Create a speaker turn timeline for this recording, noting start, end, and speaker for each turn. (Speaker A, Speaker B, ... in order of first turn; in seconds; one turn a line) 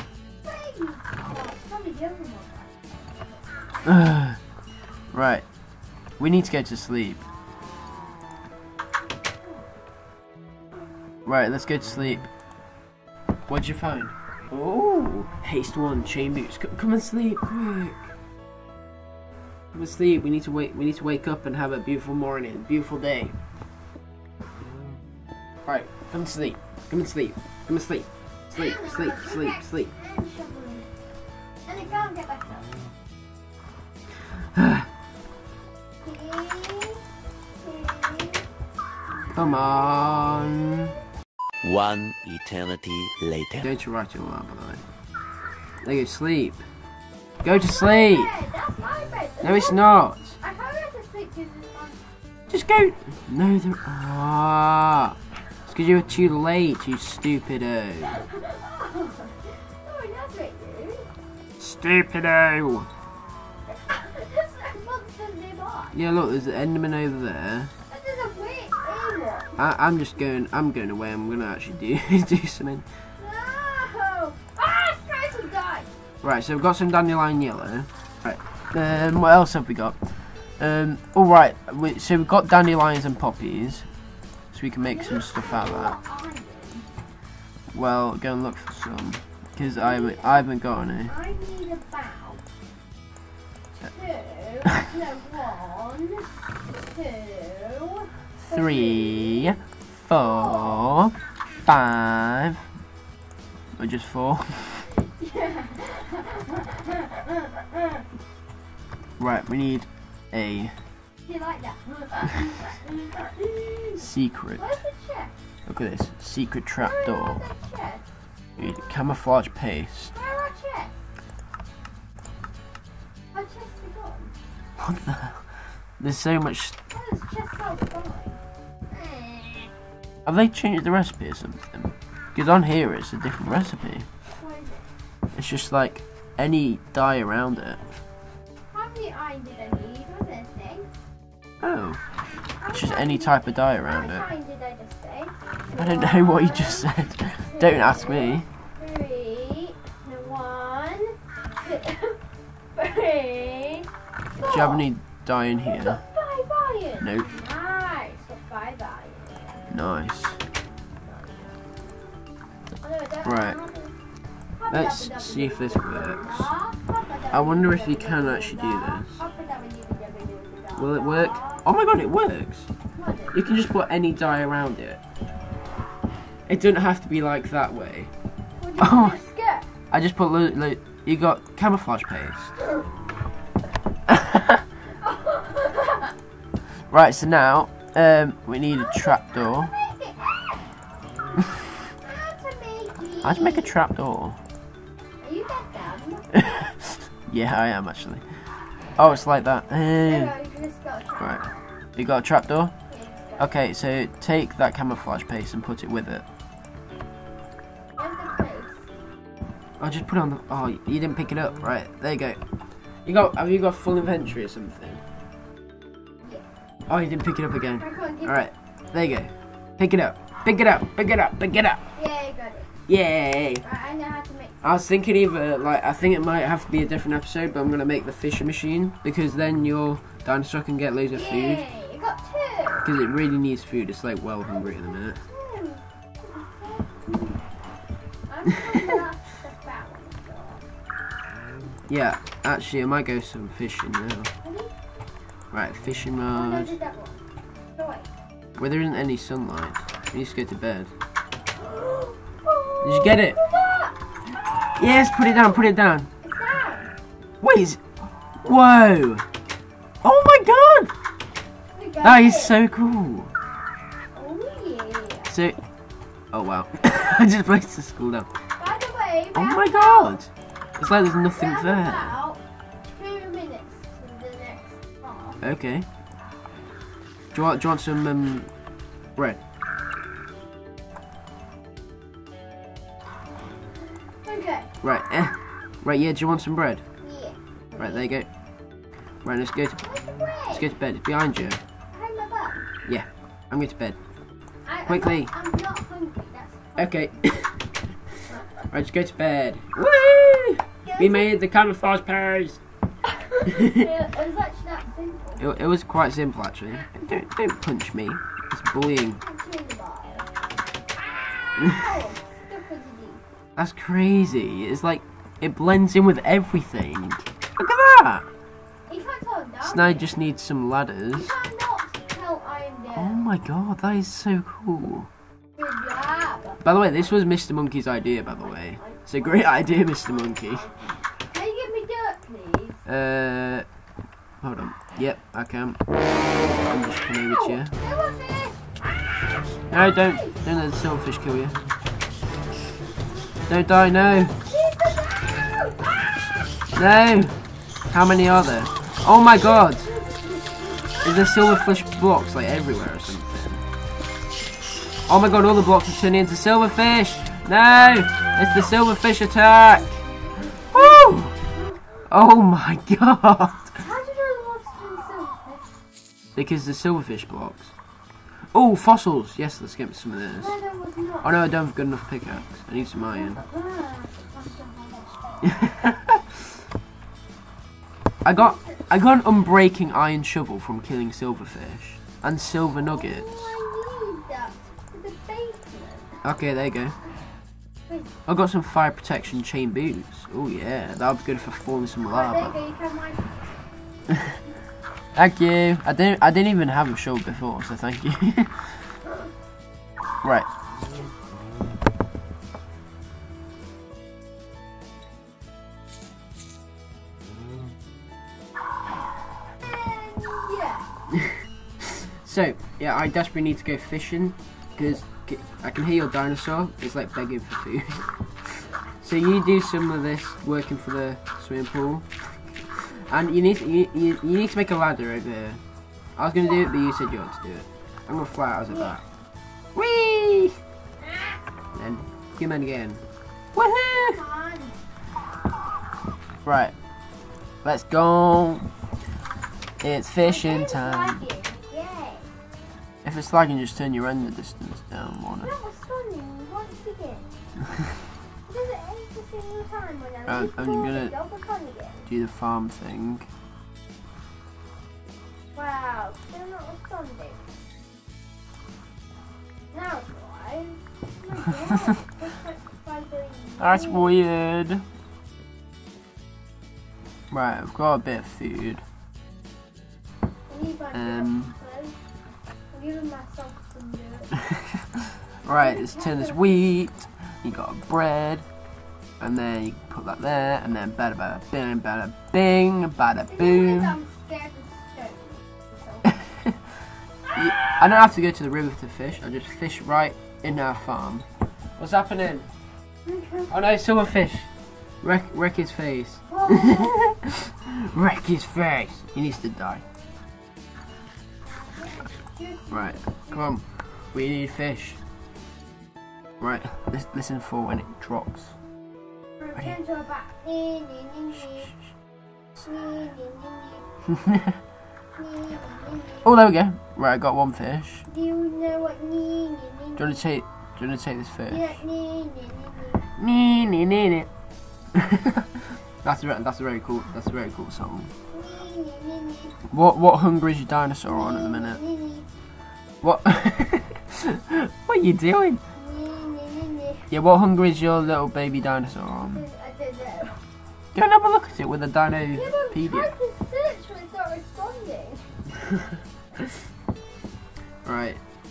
Speaker A: 0.4-2.7
Speaker B: 3.8-4.4
Speaker B: 5.1-5.5
Speaker B: 6.2-7.2
Speaker B: 11.2-12.3
Speaker B: 13.5-18.1
Speaker B: 19.7-23.3
Speaker B: 25.6-29.9
Speaker A: 28.5-30.9
Speaker A: 31.6-32.7
Speaker B: 34.5-34.9
Speaker A: 36.0-37.0
Speaker A: 37.6-38.5
Speaker B: 39.3-40.9
Speaker A: 39.4-40.0
Speaker C: 41.6-43.7
Speaker B: 43.6-44.8
Speaker B: 45.8-46.6
Speaker B: 47.4-48.3
Speaker A: 47.7-49.8
Speaker B: 49.4-50.4
Speaker A: 50.4-52.0
Speaker B: 52.5-58.2
Speaker A: 58.1-61.0
Speaker B: 61.6-62.9
Speaker A: 63.7-66.0
Speaker B: 65.9-67.7
Speaker A: 67.9-69.5
Speaker B: 69.6-72.8
Speaker A: 73.2-75.9
Speaker B: 76.2-80.0
Speaker B: 80.6-83.9
Speaker B: 84.5-86.0
Speaker A: 84.8-86.9
Speaker B: 87.7-91.1
Speaker A: 89.6-90.5
Speaker A: 91.0-92.4
Speaker A: 93.8-99.6
Speaker B: 98.4-101.1
Speaker A: 100.1-100.8
Speaker B: 101.7-102.6
Speaker B: 103.8-104.9
Speaker A: 104.9-108.0
Speaker B: 109.2-110.7
Speaker A: 111.2-114.0
Speaker B: 114.0-114.6
Speaker A: 114.6-115.3
Speaker B: 115.7-117.4
Speaker A: 116.8-118.0
Speaker B: 118.6-120.1
Speaker A: 120.1-120.9
Speaker A: 123.3-124.3
Speaker B: 124.8-125.4
Speaker B: 126.0-126.7
Speaker A: 126.9-129.7
Speaker B: 130.2-134.1
Speaker A: 134.3-134.9
Speaker B: 135.3-137.8
Speaker A: 138.7-140.9
Speaker B: 141.6-142.0
Speaker A: 142.6-152.2
Speaker B: 142.7-144.3
Speaker B: 145.8-148.5
Speaker A: 152.7-153.9
Speaker A: 154.4-154.8
Speaker B: 154.5-156.0
Speaker A: 155.6-159.6
Speaker B: 157.0-157.3
Speaker B: 159.7-160.4
Speaker A: 161.0-161.5
Speaker A: 162.8-163.9
Speaker B: 163.2-163.6
Speaker A: 164.6-171.6
Speaker B: 164.7-166.5
Speaker B: 167.3-169.2
Speaker B: 170.7-172.7
Speaker A: 172.9-173.4
Speaker B: 173.3-175.0
Speaker B: 176.5-178.1
Speaker A: 178.6-179.7
Speaker B: 178.8-179.2
Speaker B: 179.9-182.5
Speaker B: 184.1-184.6
Speaker A: 184.9-186.1
Speaker B: 186.9-189.7
Speaker A: 188.7-190.6
Speaker A: 192.0-193.7
Speaker B: 193.2-194.4
Speaker A: 195.2-196.2
Speaker B: 196.3-198.2
Speaker B: 199.0-200.3
Speaker A: 200.0-201.6
Speaker B: 201.2-201.4
Speaker B: 201.9-202.7
Speaker A: 202.9-203.5
Speaker B: 203.4-206.2
Speaker A: 208.0-208.8
Speaker B: 209.8-212.4
Speaker B: 213.0-215.0
Speaker A: 216.2-216.5
Speaker B: 216.9-221.8
Speaker A: 217.8-218.5
Speaker A: 221.9-222.7
Speaker B: 222.9-223.6
Speaker A: 223.6-224.6
Speaker B: 224.6-231.6
Speaker A: 231.1-232.9
Speaker B: 232.8-235.2
Speaker A: 234.4-237.4
Speaker A: 238.3-240.6
Speaker B: 238.5-239.0
Speaker B: 241.9-244.3
Speaker A: 244.4-244.7
Speaker B: 245.5-246.8
Speaker A: 246.3-247.2
Speaker A: 247.7-248.1
Speaker B: 248.6-250.9
Speaker A: 251.6-254.0
Speaker B: 252.8-253.4
Speaker B: 254.8-256.1
Speaker A: 255.0-255.7
Speaker A: 256.2-256.9
Speaker B: 257.4-257.8
Speaker B: 258.4-259.2
Speaker B: 260.0-260.9
Speaker A: 261.7-262.5
Speaker B: 262.0-263.3
Speaker A: 264.1-265.3
Speaker B: 265.3-265.6
Speaker B: 266.3-268.3
Speaker A: 268.6-270.2
Speaker B: 269.3-272.1
Speaker A: 271.3-275.4
Speaker B: 275.4-275.9
Speaker B: 277.3-278.5
Speaker A: 284.2-284.7
Speaker B: 284.8-286.8
Speaker A: 287.0-288.1
Speaker B: 287.8-288.3
Speaker B: 289.2-289.8
Speaker A: 289.8-290.6
Speaker B: 290.5-291.6
Speaker A: 291.9-292.6
Speaker B: 292.8-294.0
Speaker A: 294.6-296.9
Speaker B: 294.9-295.3
Speaker B: 296.8-297.7
Speaker B: 298.7-302.6
Speaker A: 300.8-301.4
Speaker A: 303.1-305.4
Speaker B: 303.4-303.9
Speaker B: 305.4-309.2
Speaker A: 309.2-310.3
Speaker A: 311.4-313.2
Speaker B: 313.6-318.2
Speaker A: 318.9-320.1
Speaker B: 319.6-321.3
Speaker A: 321.1-323.3
Speaker B: 322.9-325.1
Speaker A: 325.6-326.6
Speaker B: 326.6-330.6
Speaker A: 328.3-332.8
Speaker B: 332.9-333.6
Speaker B: 334.4-335.8
Speaker B: 336.6-337.7
Speaker A: 337.3-340.4
Speaker B: 339.7-341.6
Speaker B: 343.5-344.4
Speaker A: 344.4-346.3
Speaker B: 346.7-347.4
Speaker B: 347.9-349.9
Speaker A: 349.6-351.3
Speaker B: 351.0-353.6
Speaker B: 355.1-360.0
Speaker B: 360.7-361.4
Speaker A: 360.7-361.0
Speaker A: 361.5-361.8
Speaker B: 362.1-363.8
Speaker A: 363.8-365.7
Speaker B: 366.3-367.7
Speaker B: 368.5-370.5
Speaker A: 370.4-371.4
Speaker B: 371.2-373.4
Speaker A: 372.9-375.4
Speaker B: 375.4-376.4
Speaker B: 378.2-383.5
Speaker A: 378.3-378.7
Speaker A: 382.8-386.2
Speaker B: 386.2-386.9
Speaker A: 387.9-388.1
Speaker B: 388.2-392.5
Speaker A: 392.0-393.5
Speaker B: 394.1-394.4
Speaker B: 395.1-398.8
Speaker B: 400.2-400.5
Speaker A: 409.6-410.9
Speaker B: 411.1-422.1
Speaker B: 423.1-425.6
Speaker B: 426.2-429.0
Speaker A: 428.7-429.0
Speaker B: 429.7-430.6
Speaker A: 431.0-431.4
Speaker B: 431.7-433.0
Speaker B: 433.5-434.2
Speaker A: 434.0-434.8
Speaker B: 436.4-436.7
Speaker B: 437.6-438.7
Speaker B: 439.8-441.2
Speaker A: 440.2-442.3
Speaker B: 443.0-445.5
Speaker A: 445.4-447.3
Speaker A: 448.5-452.1
Speaker B: 450.3-451.1
Speaker B: 452.1-453.3
Speaker A: 455.5-457.4
Speaker A: 459.7-464.1
Speaker B: 463.6-464.8
Speaker B: 467.3-468.8
Speaker A: 470.5-471.9
Speaker B: 470.9-471.5
Speaker A: 472.7-474.3
Speaker B: 474.4-478.4
Speaker A: 475.5-476.6
Speaker B: 479.2-484.0
Speaker A: 483.2-486.1
Speaker B: 486.1-486.6
Speaker B: 487.3-491.2
Speaker B: 491.8-492.5
Speaker A: 493.1-493.5
Speaker B: 493.5-494.5
Speaker B: 495.0-499.8
Speaker A: 496.3-497.1
Speaker A: 501.4-503.5
Speaker B: 502.7-505.0
Speaker B: 506.4-508.6
Speaker A: 509.4-511.7
Speaker A: 512.5-513.9
Speaker B: 514.1-514.6
Speaker A: 515.1-516.3
Speaker B: 516.2-518.0
Speaker A: 518.1-520.3
Speaker B: 520.0-521.8
Speaker A: 521.5-523.0
Speaker B: 523.2-524.3
Speaker B: 524.9-528.1
Speaker A: 528.3-529.6
Speaker B: 529.7-531.8
Speaker A: 531.1-532.3
Speaker B: 533.0-535.6
Speaker A: 535.8-537.1
Speaker B: 537.1-539.4
Speaker A: 539.2-540.4
Speaker B: 540.9-543.1
Speaker A: 542.3-545.3
Speaker B: 547.8-548.2